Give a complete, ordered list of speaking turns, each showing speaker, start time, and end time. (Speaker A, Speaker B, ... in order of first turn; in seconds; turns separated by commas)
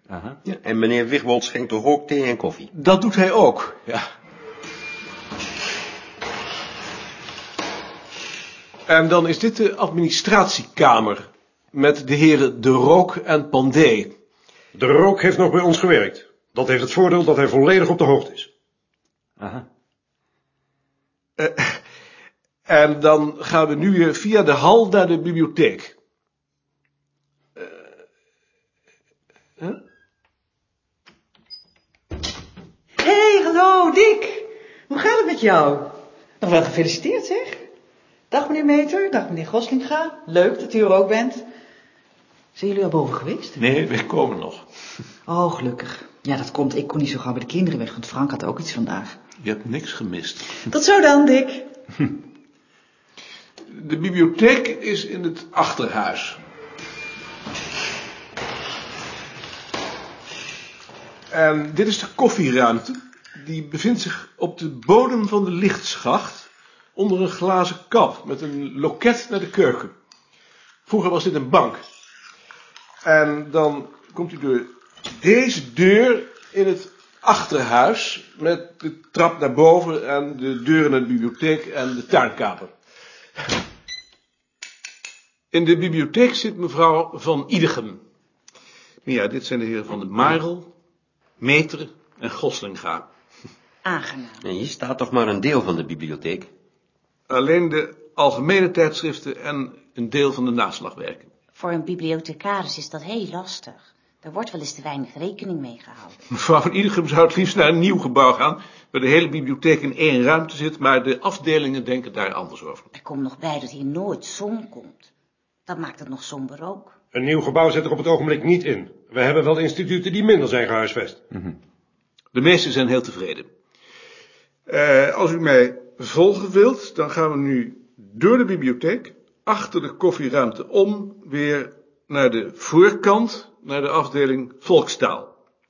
Speaker A: 0.5-2.6, Speaker B: 2.7-4.0, Speaker B: 8.9-14.1, Speaker C: 14.7-18.5, Speaker B: 21.4-21.8, Speaker B: 22.7-25.9, Speaker D: 33.0-37.6, Speaker D: 38.3-41.5, Speaker D: 42.5-43.6, Speaker B: 43.6-44.7, Speaker D: 45.3-49.1, Speaker B: 49.4-50.6, Speaker D: 50.7-51.7, Speaker B: 53.6-56.4, Speaker B: 61.3-69.9, Speaker B: 70.9-71.8, Speaker B: 73.0-82.7, Speaker B: 85.5-88.0, Speaker B: 89.0-90.7, Speaker B: 91.4-93.0, Speaker E: 93.8-94.5, Speaker A: 94.6-96.5, Speaker B: 97.3-101.3, Speaker E: 101.5-106.2, Speaker B: 106.3-112.9, Speaker E: 112.9-115.1, Speaker E: 115.7-116.9, Speaker C: 117.1-121.2, Speaker B: 122.3-123.5, Speaker B: 124.7-135.3